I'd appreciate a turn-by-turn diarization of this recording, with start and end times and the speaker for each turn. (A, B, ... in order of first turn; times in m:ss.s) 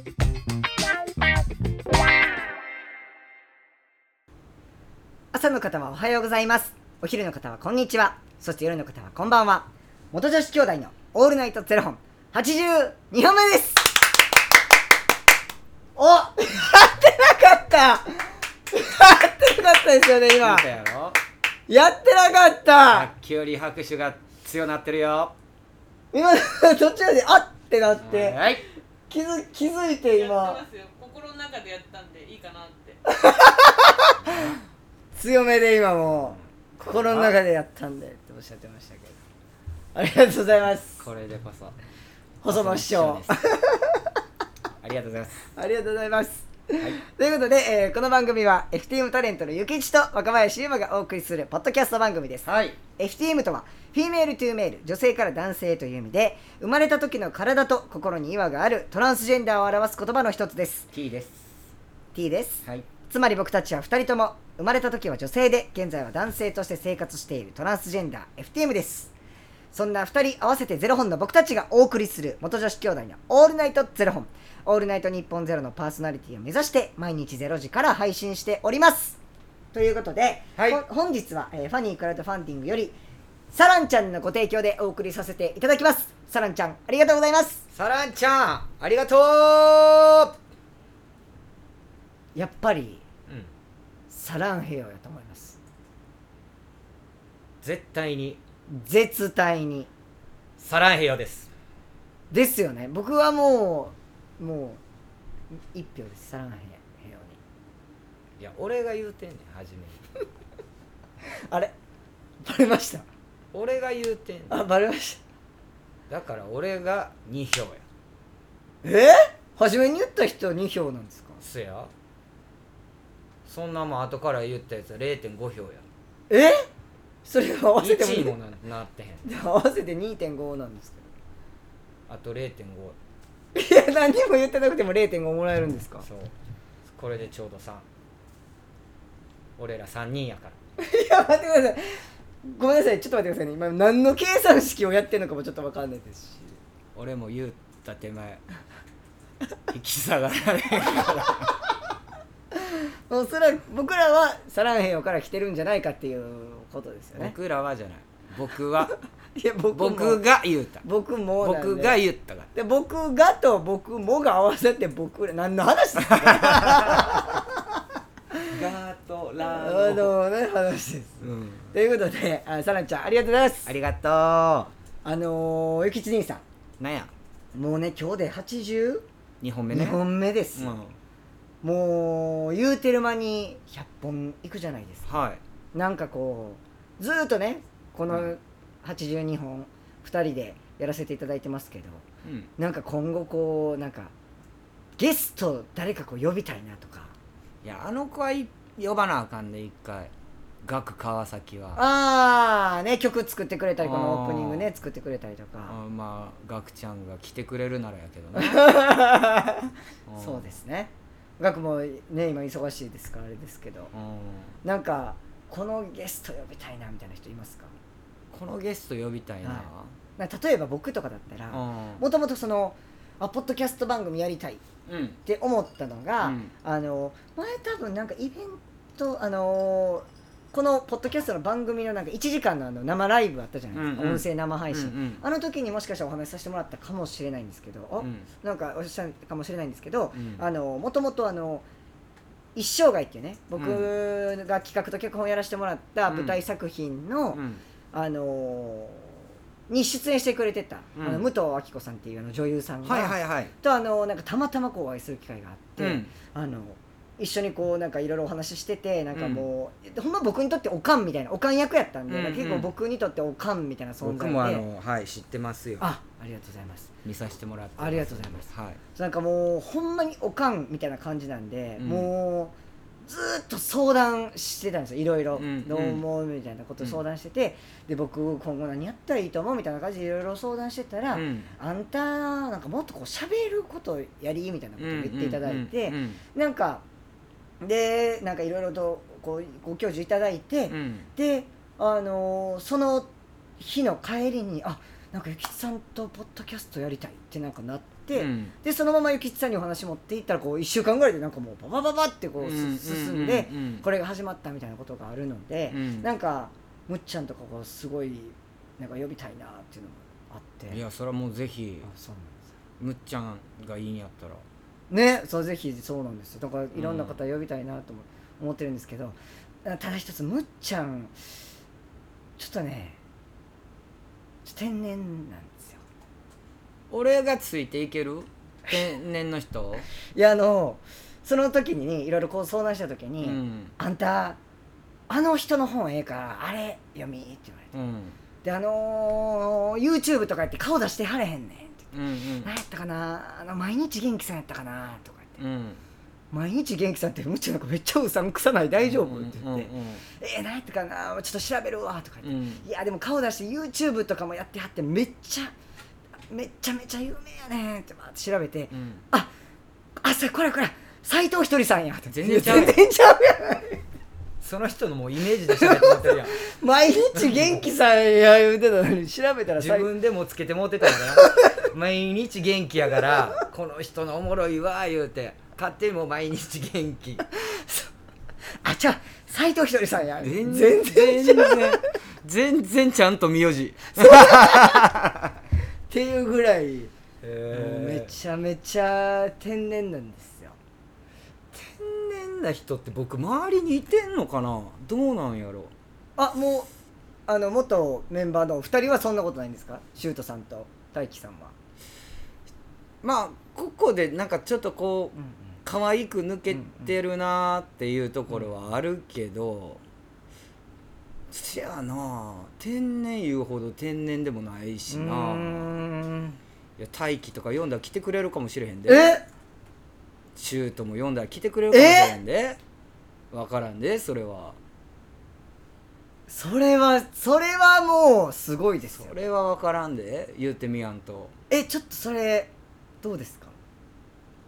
0:05.3-0:13.9 A
0:16.0-0:20.7 A
0:20.4-0:21.2 B
0:21.7-0:23.1 A
0:22.9-0:25.3 B
0:26.1-0:28.4 A
0:28.0-0:28.6 B
0:29.1-0:30.6 A
0:30.2-0:33.0 C
0:33.1-0:34.3 A
0:34.2-0:34.6 B
0:35.1-0:39.2 A
0:36.8-0:37.4 B
0:39.9-0:41.0 A
0:41.0-0:41.8 B
0:42.4-0:44.1 A
0:42.5-0:43.4 B
0:44.8-0:45.5 B
0:45.6-1:00.9 A
0:52.4-0:52.8 B
1:00.9-1:01.5 B
1:02.1-1:09.1 A
1:09.7-1:19.2 A
1:19.7-1:23.0 A
1:20.6-1:20.8 B
1:23.5-1:27.6 A
1:27.7-1:30.3 B
1:32.3-1:33.0 A
1:34.1-1:35.6 A
1:37.6-1:38.4 B
1:38.7-1:39.9 A
1:40.6-1:41.5 B
1:42.3-1:44.8 A
1:45.6-1:47.4 A
1:48.4-1:50.0 B
1:52.4-1:53.0 A
1:53.5-1:54.6 B
1:54.5-1:55.2 A
1:56.1-1:57.8 B
1:58.8-2:01.4 A
2:01.4-2:01.9 B
2:03.4-2:05.8 B
2:06.3-2:06.6 A
2:07.2-2:08.3 A
2:07.8-2:09.3 B
2:09.2-2:11.1 A
2:12.1-2:13.0 B
2:13.5-2:16.1 A
2:16.0-2:16.3 B
2:16.9-2:17.8 B
2:19.6-2:20.6 B
2:20.8-2:26.6 A
2:26.9-2:28.4 B
2:29.7-2:31.6 B
2:32.7-2:37.3 A
2:37.2-2:39.0 B
2:39.4-2:40.2 A
2:39.7-2:40.8 B
2:40.8-2:42.0 A
2:41.4-2:42.5 B
2:42.5-2:47.4 A
2:46.2-2:47.1 B
2:48.5-2:50.1 B
2:49.4-2:53.7 A
2:51.2-2:51.7 B
2:53.6-2:54.7 B
2:55.0-2:56.4 A
2:56.8-2:57.1 B
2:57.5-2:59.0 A
2:59.4-3:00.0 B
2:59.7-3:00.8 A
3:00.5-3:01.0 B
3:01.6-3:05.1 A
3:05.0-3:05.4 B
3:05.7-3:12.0 A
3:12.2-3:12.5 B
3:12.6-3:14.1 A
3:15.0-3:17.1 A
3:17.6-3:20.1 B
3:20.6-3:21.8 B
3:21.7-3:25.8 A
3:23.8-3:24.7 B
3:25.7-3:28.7 B
3:28.4-3:33.9 A
3:30.1-3:30.5 B
3:33.9-3:34.5 B
3:34.6-3:37.7 A
3:38.3-3:39.9 B
3:39.4-3:44.6 A
3:41.5-3:42.0 B
3:44.9-3:45.2 B
3:45.2-4:01.6 A
3:46.2-3:46.5 B
3:53.7-3:55.2 B
3:58.0-3:58.3 B
4:00.1-4:00.4 B
4:02.6-4:24.6 A
4:03.6-4:03.9 B
4:06.1-4:06.4 B
4:07.3-4:07.6 B
4:11.0-4:11.2 B
4:12.8-4:13.5 B
4:15.8-4:16.1 B
4:19.1-4:19.5 B
4:22.1-4:22.7 B
4:24.0-4:25.9 B
4:25.8-4:26.9 A
4:27.0-4:28.8 B
4:27.8-4:46.8 A
4:31.8-4:32.1 B
4:35.3-4:36.0 B
4:41.1-4:41.5 B
4:44.8-4:46.2 B
4:47.6-5:10.8 A
4:50.7-4:51.1 B
4:58.1-4:58.5 B
5:02.4-5:03.8 B
5:05.7-5:06.1 B
5:10.7-5:11.9 B
5:11.8-5:12.4 A
5:12.8-5:14.4 B
5:14.9-5:21.1 A
5:16.7-5:17.2 B
5:22.4-5:23.0 A
5:24.4-5:25.8 A
5:26.9-5:29.8 B
5:30.1-5:34.4 A
5:33.2-5:33.7 B
5:35.1-5:37.7 A
5:37.7-5:38.2 B
5:38.4-5:45.4 A
5:41.9-5:42.5 B
5:45.4-5:45.8 B
5:46.3-5:55.5 A
5:48.8-5:50.0 B
5:52.2-5:52.6 B
5:56.3-5:59.3 A
5:58.7-5:59.0 B
6:00.0-6:03.8 A
6:02.1-6:02.8 B
6:04.4-6:06.4 B
6:05.4-6:09.9 A
6:09.6-6:17.2 B
6:11.2-6:11.5 A
6:17.3-6:17.9 A
6:18.6-6:21.8 A
6:20.2-6:25.3 B
6:24.0-6:24.9 A
6:25.9-6:26.9 A
6:27.2-6:28.1 B
6:27.5-6:30.6 A
6:31.5-6:35.7 B
6:36.2-6:36.7 A
6:37.3-6:41.5 A
6:43.0-6:49.8 B
6:46.5-6:46.9 A
6:51.3-6:55.8 B
6:54.9-6:56.4 A
6:56.8-6:59.2 B
6:58.9-6:59.2 A
7:00.4-7:02.6 B
7:01.7-7:02.2 A
7:03.3-7:04.6 B
7:06.3-7:09.2 A
7:09.0-7:11.3 B
7:11.5-7:12.5 A
7:13.0-7:13.6 A